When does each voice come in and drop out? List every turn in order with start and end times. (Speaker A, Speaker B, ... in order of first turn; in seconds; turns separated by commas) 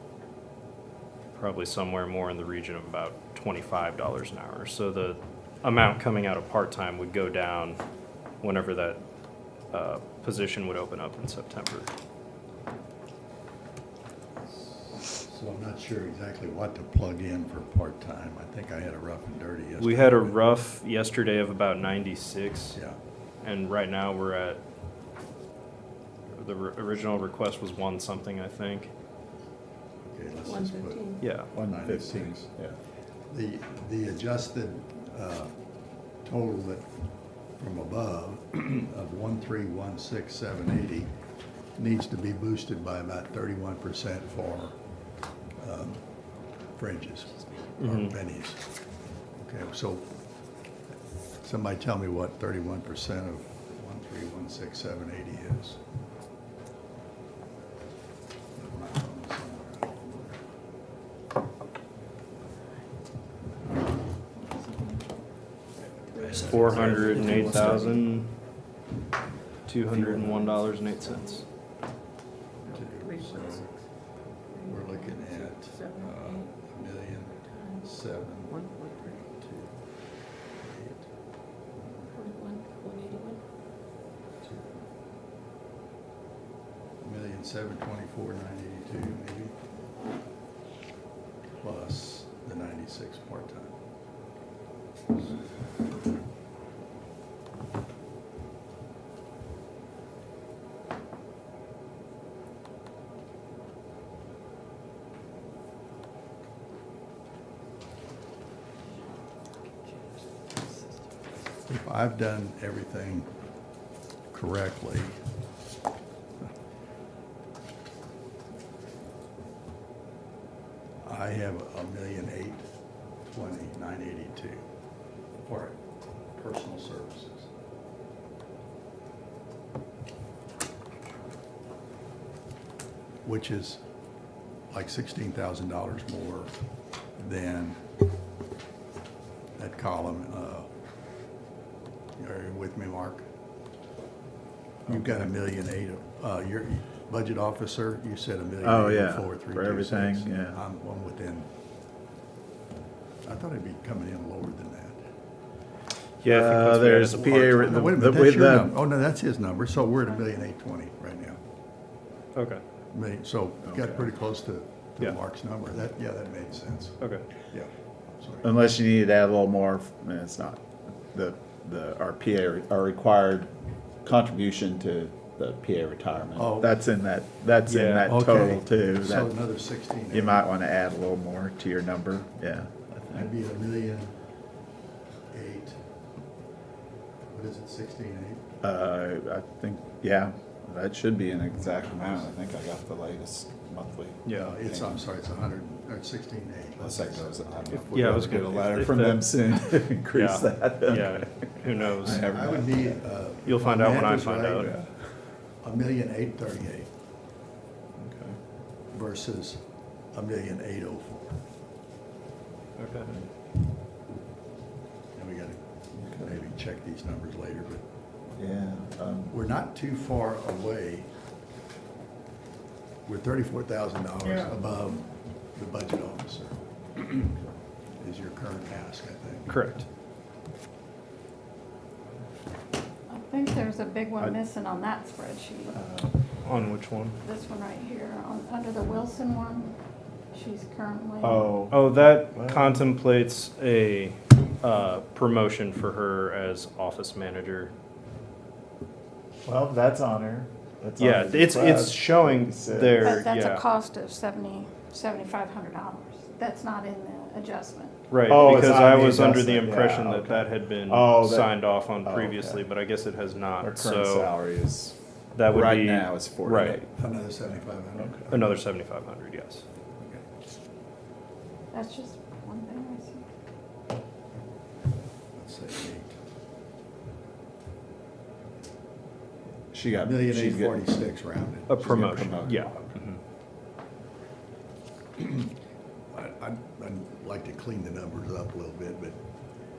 Speaker A: 1.3-7.8, Speaker A: 8.4-9.0, Speaker A: 9.7-11.9, Speaker B: 14.9-20.3, Speaker A: 19.8-22.8, Speaker A: 23.4-24.6, Speaker A: 26.3-28.9, Speaker B: 30.1-32.5, Speaker C: 30.4-31.2, Speaker A: 31.2-31.5, Speaker D: 31.5-32.7, Speaker B: 33.3-35.5, Speaker B: 36.2-36.9, Speaker B: 37.5-41.1, Speaker B: 41.8-44.8, Speaker B: 45.6-46.0, Speaker B: 46.8-48.6, Speaker A: 47.8-48.1, Speaker B: 49.4-50.1, Speaker B: 51.4-55.8, Speaker B: 58.5-60.4, Speaker E: 64.3-65.0, Speaker B: 66.0-67.7, Speaker C: 66.1-68.0, Speaker A: 66.4-68.3, Speaker A: 69.7-71.4, Speaker C: 70.0-70.4, Speaker B: 72.7-73.7, Speaker C: 72.7-73.7, Speaker C: 74.4-76.5, Speaker B: 74.6-78.6, Speaker C: 77.5-77.9, Speaker C: 78.5-79.2, Speaker B: 79.2-79.8, Speaker B: 80.6-81.1, Speaker B: 81.8-82.1, Speaker C: 82.1-83.4, Speaker B: 84.4-84.7, Speaker B: 87.0-89.5, Speaker B: 91.6-93.7, Speaker B: 111.7-113.3, Speaker B: 114.3-115.1, Speaker B: 121.0-122.6, Speaker B: 123.3-124.6, Speaker B: 125.4-125.8, Speaker B: 126.3-127.5, Speaker B: 133.2-133.8, Speaker B: 134.7-136.5, Speaker B: 137.2-137.8, Speaker B: 139.6-140.7, Speaker B: 142.2-143.2, Speaker B: 144.9-151.5, Speaker D: 144.9-145.3, Speaker D: 148.6-150.6, Speaker B: 153.2-154.9, Speaker A: 156.2-157.9, Speaker D: 156.2-158.8, Speaker B: 157.6-161.4, Speaker A: 162.3-162.6, Speaker B: 162.9-167.0, Speaker D: 163.6-164.0, Speaker A: 167.0-167.2, Speaker B: 168.2-168.5, Speaker D: 168.4-170.6, Speaker D: 171.1-173.5, Speaker D: 174.0-179.3, Speaker B: 176.4-176.7, Speaker A: 177.7-178.1, Speaker B: 178.1-180.4, Speaker D: 180.1-183.3, Speaker B: 183.1-184.1, Speaker B: 185.3-185.8, Speaker B: 187.3-188.4, Speaker D: 188.6-195.0, Speaker B: 191.6-192.2, Speaker B: 194.3-197.7, Speaker D: 196.8-203.0, Speaker A: 197.7-202.2, Speaker B: 202.0-204.8, Speaker A: 203.4-204.7, Speaker D: 204.6-205.0, Speaker B: 205.6-206.9, Speaker D: 208.0-208.3, Speaker B: 208.9-209.6, Speaker B: 210.1-211.3, Speaker A: 212.8-213.1, Speaker B: 215.1-217.8, Speaker D: 216.0-216.3, Speaker D: 218.3-219.3, Speaker B: 219.3-221.1, Speaker B: 223.1-227.4, Speaker D: 224.2-224.5, Speaker B: 228.0-229.6, Speaker A: 229.5-229.8, Speaker E: 233.1-235.8, Speaker D: 235.7-236.1, Speaker A: 236.4-237.2, Speaker E: 237.2-239.7, Speaker E: 240.3-241.5, Speaker D: 241.2-242.8, Speaker A: 241.7-247.7, Speaker D: 249.4-253.3, Speaker A: 251.0-253.6, Speaker E: 253.0-258.0, Speaker A: 258.1-264.3, Speaker D: 258.3-262.6, Speaker D: 263.6-266.9, Speaker A: 265.3-266.8, Speaker B: 267.0-268.6, Speaker A: 268.3-269.6, Speaker B: 270.0-270.2, Speaker E: 271.7-273.2, Speaker B: 275.4-276.1, Speaker D: 279.7-280.9, Speaker B: 280.0-282.8, Speaker A: 281.7-283.2, Speaker D: 281.8-282.7, Speaker B: 285.2-285.5, Speaker B: 286.1-289.2